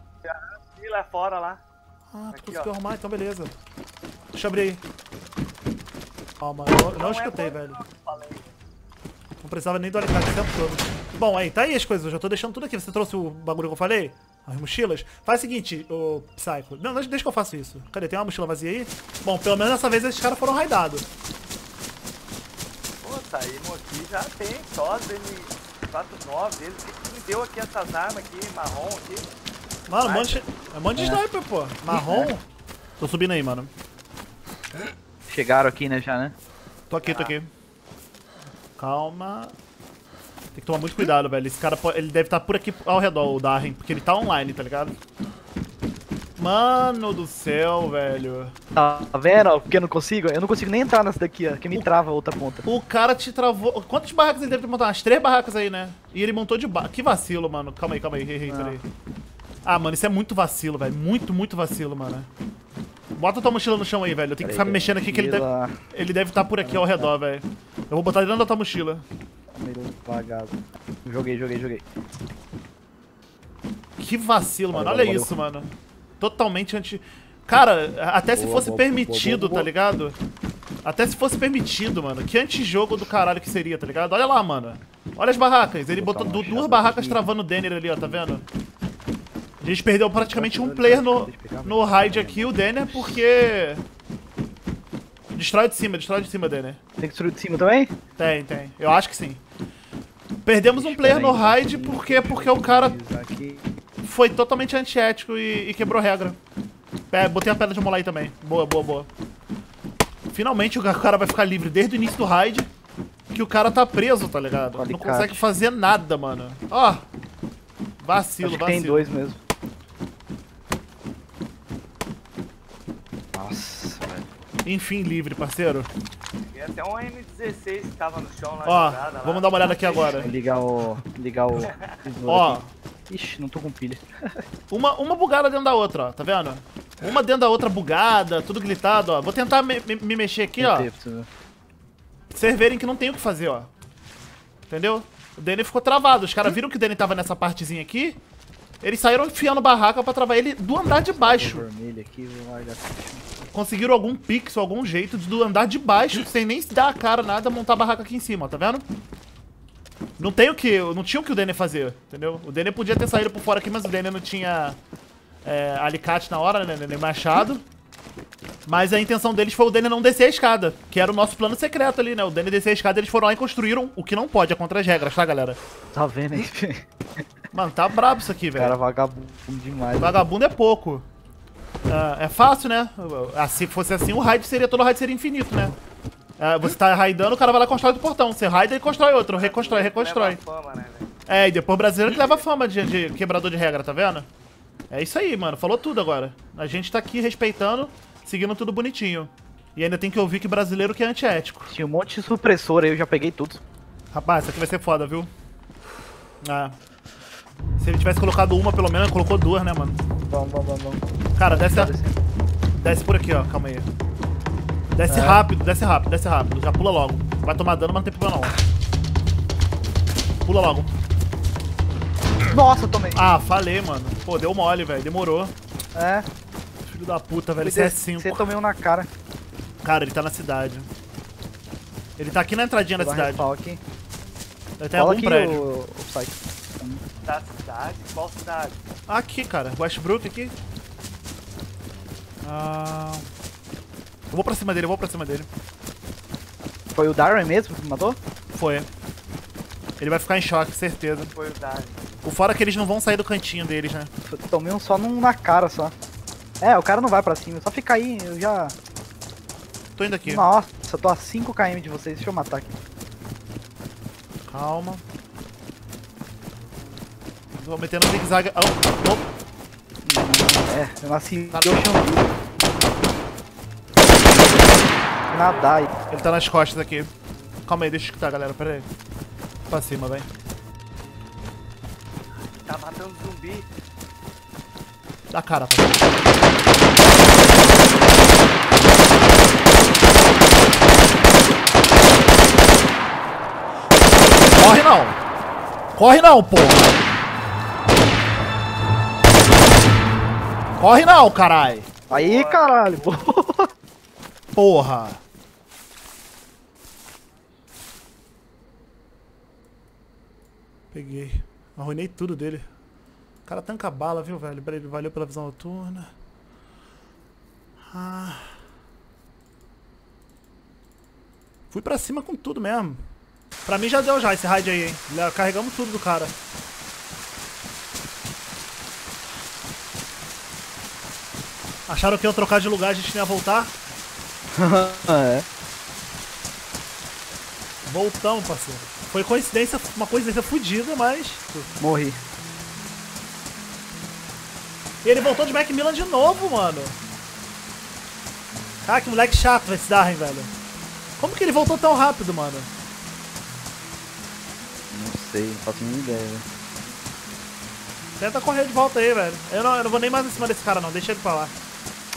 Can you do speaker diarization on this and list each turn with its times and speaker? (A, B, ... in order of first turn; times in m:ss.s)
0:00.3-0:01.6 A
0:02.1-0:03.5 B
0:02.3-0:02.7 A
0:04.3-0:04.8 B
0:06.4-0:07.8 B
0:06.7-0:08.5 A
0:09.4-0:21.1 B
0:23.0-0:29.3 A
0:29.9-0:32.4 B
0:30.0-0:30.5 A
0:31.0-0:31.2 C
0:31.9-0:32.3 C
0:33.0-0:33.7 B
0:35.3-0:36.4 C
0:36.9-0:37.5 B
0:37.0-0:37.4 A
0:38.8-0:39.6 B
0:40.6-0:45.0 B
0:46.4-0:48.5 B
0:48.8-0:52.6 C
0:52.6-0:58.9 B
0:58.5-0:58.8 C
0:59.6-1:02.3 B
1:03.2-1:09.1 B
1:04.4-1:05.8 C
1:06.6-1:07.1 C
1:09.5-1:11.8 C
1:14.0-1:20.2 B
1:14.7-1:15.3 C
1:18.3-1:19.7 C
1:20.8-1:28.4 B
1:25.9-1:27.2 C
1:29.6-1:33.8 B
1:30.3-1:33.2 C
1:35.3-1:36.8 B
1:37.0-1:37.9 C
1:38.2-1:39.4 B
1:40.4-1:43.0 B
1:40.6-1:43.7 C
1:44.0-1:46.4 B
1:47.1-1:49.1 B
1:50.3-1:52.7 B
1:53.3-1:57.1 B
1:54.8-1:55.4 C
1:58.0-1:59.1 B
1:58.4-1:59.4 C
2:03.3-2:04.3 C
2:04.6-2:05.9 B
2:06.5-2:10.3 A
2:08.6-2:10.3 B
2:09.9-2:14.0 C
2:11.7-2:11.9 A
2:12.3-2:12.7 B
2:14.7-2:20.9 B
2:20.6-2:21.3 C
2:22.3-2:23.7 B
2:24.7-2:28.2 B
2:28.8-2:31.7 B
2:31.0-2:33.3 C
2:33.5-2:38.8 B
2:40.2-2:44.8 B
2:45.4-2:47.6 B
2:48.7-2:55.6 B
2:55.9-2:56.8 C
2:57.5-2:58.8 B
2:58.5-3:00.2 C
3:00.0-3:01.1 B
3:01.9-3:05.8 B
3:06.4-3:10.4 B
3:09.3-3:11.1 A
3:11.3-3:14.3 B
3:14.9-3:21.7 B
3:21.7-3:23.6 C
3:24.1-3:25.3 B
3:26.4-3:26.8 B
3:27.8-3:30.0 B
3:30.3-3:32.2 C
3:31.4-3:31.9 B
3:32.8-3:33.9 B
3:34.9-3:38.6 B
3:35.1-3:35.4 C
3:40.4-3:40.9 B
3:42.5-3:43.3 C
3:43.2-3:45.5 B
3:45.9-3:46.3 C
3:46.8-3:48.6 B
3:47.6-3:49.1 C
3:49.8-3:50.9 B
3:52.2-3:53.5 B
3:53.0-3:53.8 C
3:54.8-3:55.7 B
3:55.0-3:57.0 C
3:57.2-3:58.8 A
3:59.1-4:00.6 B
4:02.4-4:03.3 B
4:04.3-4:05.5 B
4:07.0-4:08.2 C
4:08.5-4:08.9 B
4:10.0-4:11.3 B
4:11.2-4:12.0 A
4:12.2-4:14.1 B
4:14.3-4:15.9 C
4:16.6-4:18.8 C
4:20.0-4:20.5 B
4:20.2-4:22.7 C
4:24.5-4:25.0 B
4:27.5-4:29.3 B
4:30.0-4:32.3 C
4:31.5-4:32.0 B
4:35.3-4:35.8 A
4:35.3-4:35.9 C
4:36.1-4:37.1 B
4:37.7-4:38.9 B
4:39.7-4:40.3 B
4:42.4-4:43.7 A
4:45.3-4:46.1 B
4:54.5-4:55.2 B
4:56.0-4:57.0 B
5:00.8-5:01.9 B
5:02.1-5:02.7 A
5:02.1-5:03.7 C
5:04.6-5:05.2 B
5:10.9-5:12.7 B
5:13.5-5:16.1 B
5:17.9-5:18.6 B
5:21.7-5:23.0 B
5:23.6-5:26.4 B
5:31.9-5:33.7 B
5:34.6-5:35.5 C
5:37.9-5:41.7 B
5:41.8-5:42.2 C
5:45.0-5:47.0 B
5:48.8-5:50.5 B
5:51.2-5:52.7 B
5:54.9-5:56.4 C
5:58.2-6:01.5 B